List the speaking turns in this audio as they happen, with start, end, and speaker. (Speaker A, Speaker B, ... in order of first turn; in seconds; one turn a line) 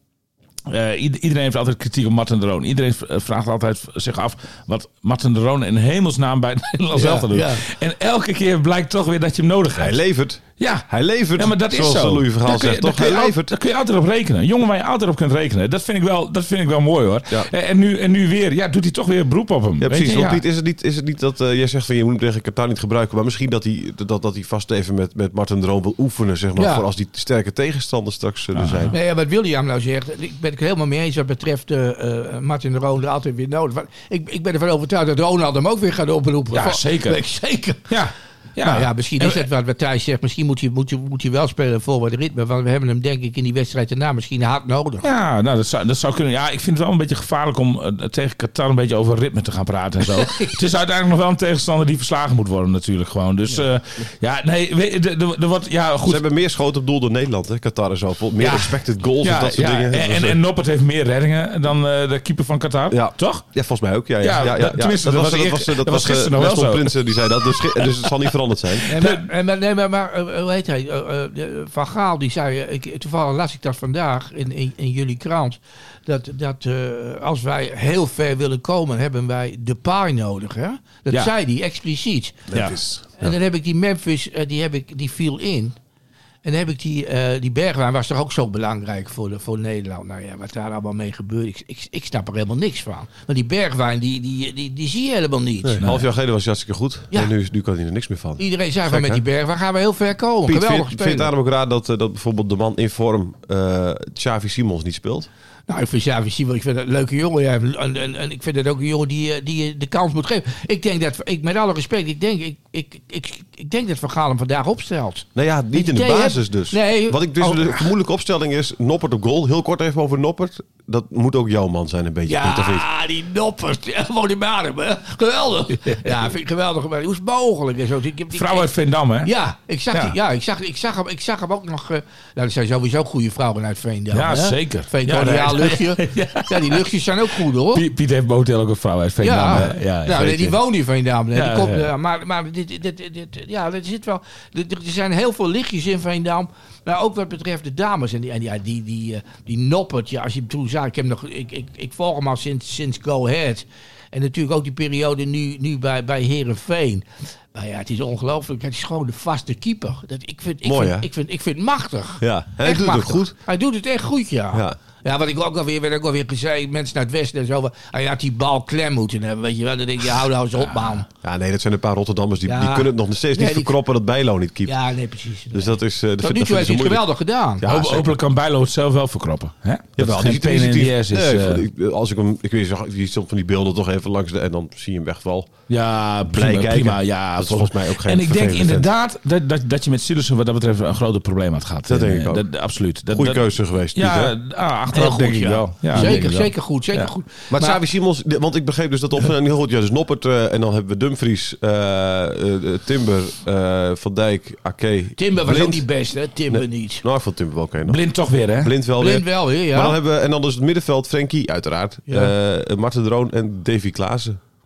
Speaker A: 0.7-9.9
Speaker B: 6.9-7.6
Speaker C: 9.7-13.5
Speaker A: 10.6-20.4
Speaker C: 19.8-28.9
Speaker B: 26.6-26.9
Speaker A: 28.5-28.9
Speaker B: 28.9-37.9
Speaker A: 36.5-37.2
Speaker A: 37.9-39.5
Speaker B: 38.6-45.1
Speaker A: 45.0-56.2
Speaker B: 50.1-50.5
Speaker C: 56.0-60.4
Speaker A: 58.4-63.5
Speaker C: 62.9-68.9
Speaker A: 64.2-67.8
Speaker A: 68.9-69.2
Speaker B: 68.9-82.5
Speaker C: 82.5-83.3
Speaker A: 82.5-82.8
Speaker B: 83.2-85.7
Speaker B: 86.4-95.8
Speaker C: 95.6-99.2
Speaker B: 98.4-101.3
Speaker C: 100.5-105.3
Speaker B: 105.7-117.9
Speaker C: 115.3-122.8
Speaker B: 122.3-128.7
Speaker A: 128.3-129.3
Speaker B: 129.2-137.8
Speaker A: 134.1-136.8
Speaker A: 137.6-140.6
Speaker B: 139.2-171.1
Speaker A: 141.3-141.9
Speaker C: 160.6-161.1
Speaker C: 162.2-163.3
Speaker C: 164.5-164.8
Speaker A: 170.6-171.0
Speaker C: 171.2-174.7
Speaker B: 172.4-173.8
Speaker B: 174.7-177.6
Speaker C: 175.5-177.0
Speaker C: 177.6-178.1
Speaker A: 177.6-181.6
Speaker C: 180.0-185.5
Speaker A: 185.7-197.1
Speaker C: 186.2-188.9
Speaker C: 191.8-192.5
Speaker C: 193.1-194.3
Speaker B: 194.9-197.8
Speaker C: 195.9-196.2
Speaker C: 197.5-205.9
Speaker B: 205.2-207.0
Speaker C: 206.5-208.0
Speaker A: 207.8-208.7
Speaker C: 208.5-214.4
Speaker B: 209.0-210.0
Speaker B: 212.1-212.3